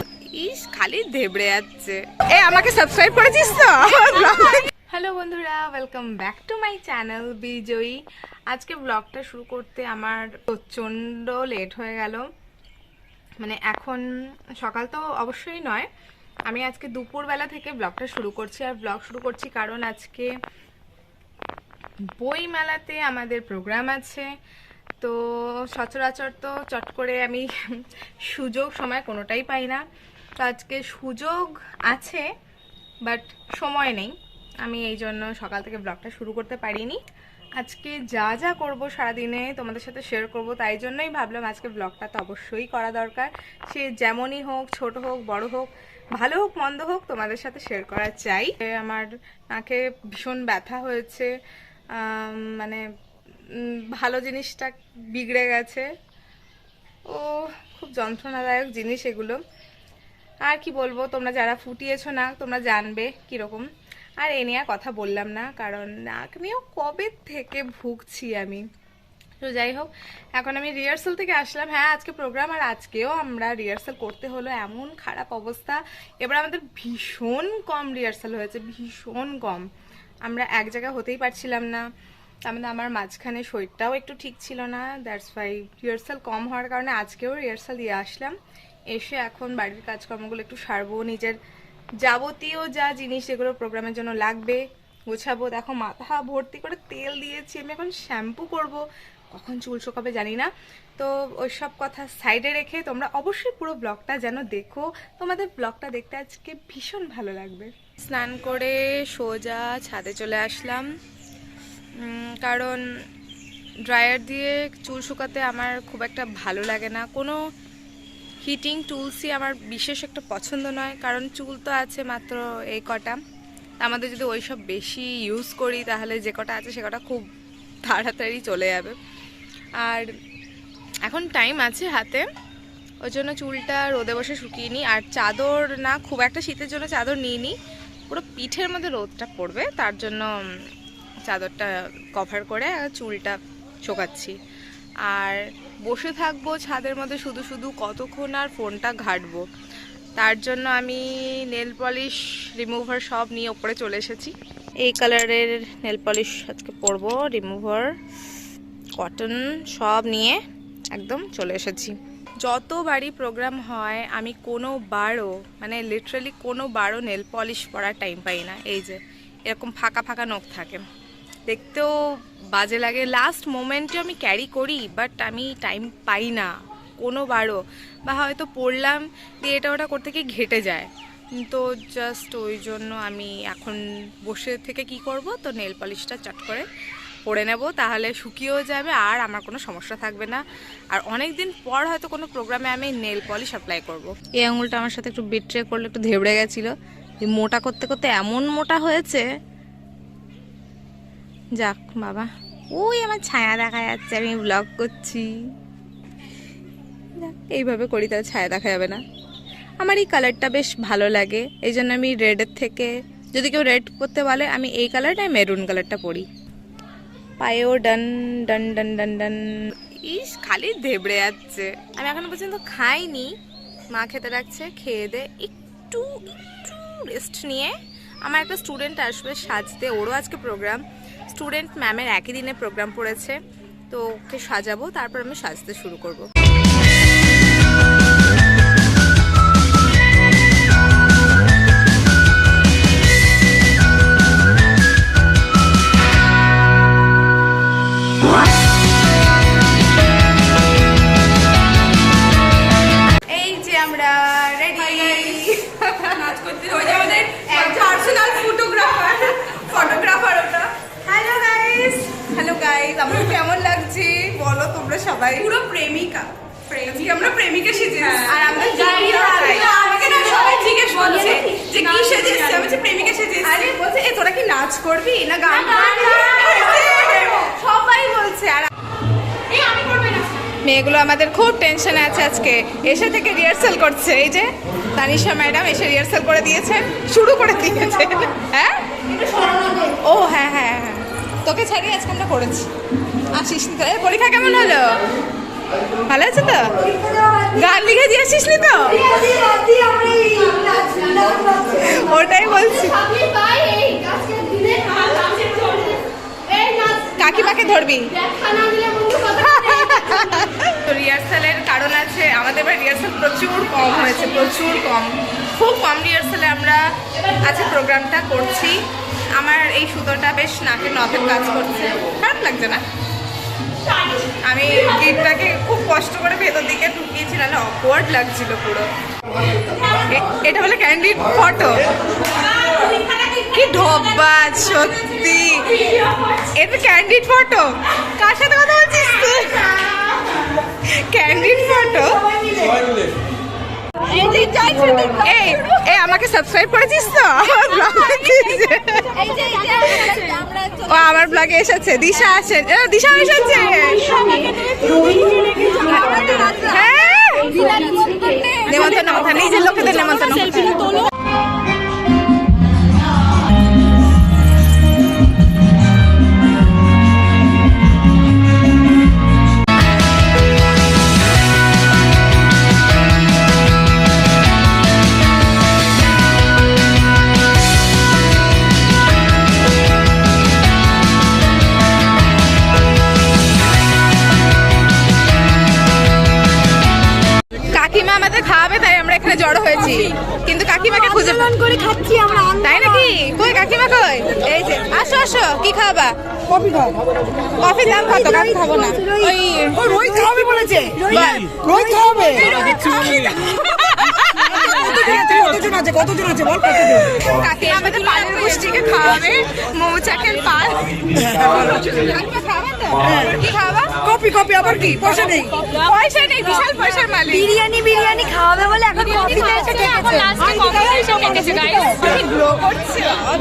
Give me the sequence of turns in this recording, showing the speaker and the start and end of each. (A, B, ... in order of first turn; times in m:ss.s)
0:00.4-0:12.2 A
0:13.4-0:14.1 A
0:14.6-0:15.9 A
0:16.4-0:20.3 A
0:22.1-0:24.3 A
0:25.0-0:29.8 A
0:30.4-0:32.3 A
0:33.0-0:37.0 A
0:37.6-0:51.3 A
0:51.9-0:52.8 A
0:53.5-0:55.9 A
0:57.1-0:59.4 A
1:00.4-1:03.6 A
1:04.2-1:08.6 A
1:09.4-1:19.7 A
1:20.2-1:21.8 A
1:22.4-1:28.3 A
1:28.9-1:31.4 A
1:32.0-1:38.8 A
1:39.3-1:50.9 A
1:52.0-1:52.8 A
1:53.9-1:57.4 A
1:58.4-2:03.2 A
2:03.8-2:07.3 A
2:07.8-2:09.0 A
2:09.8-2:10.1 A
2:11.0-2:12.2 A
2:13.0-2:17.6 A
2:18.1-2:20.6 A
2:21.2-2:24.4 A
2:25.0-2:29.4 A
2:30.2-2:37.9 A
2:39.0-2:40.4 A
2:40.9-2:50.8 A
2:51.5-2:51.9 A
2:52.5-3:06.6 A
3:07.2-3:16.7 A
3:17.2-3:19.2 A
3:21.6-3:25.3 A
3:27.2-3:29.0 A
3:29.8-3:36.2 A
3:37.4-3:43.3 A
3:43.9-3:53.4 A
3:53.9-3:56.3 A
4:13.3-4:25.5 A
4:16.5-4:19.1 B
4:25.4-4:33.5 B
4:28.2-4:30.7 A
4:31.3-4:38.7 A
4:39.5-4:40.2 B
4:40.6-4:48.8 A
4:49.2-4:50.0 C
4:50.0-4:52.7 A
4:53.3-4:55.0 A
4:56.1-4:56.8 A
4:57.0-4:57.7 C
4:57.4-4:59.1 A
4:59.0-5:02.0 C
5:01.7-5:03.1 A
5:03.1-5:06.0 C
5:06.6-5:07.0 C
5:07.0-5:08.5 A
5:08.5-5:09.6 C
5:09.1-5:18.8 A
5:19.4-5:22.8 A
5:24.4-5:28.9 A
5:29.9-5:31.9 A
5:33.2-5:39.9 A
5:40.8-5:42.3 A
5:42.0-5:42.9 C
5:44.1-5:45.1 C
5:44.3-5:44.7 B
5:44.5-5:54.4 A
5:49.3-5:50.5 C
5:54.2-5:56.5 C
5:54.3-5:55.0 B
5:55.8-5:57.8 A
5:57.5-5:58.5 C
5:58.5-6:01.0 A
6:27.7-6:31.6 A
6:31.3-6:33.3 C
6:32.6-6:36.2 A
6:36.6-6:36.9 C
6:37.6-6:40.0 A
6:38.3-6:43.1 C
6:42.7-6:45.6 A
6:44.8-6:46.8 C
6:46.5-6:54.2 A
6:54.1-6:55.4 C
6:54.8-6:55.1 A
6:55.6-6:57.6 A
6:57.4-7:02.1 C
7:02.2-7:03.3 A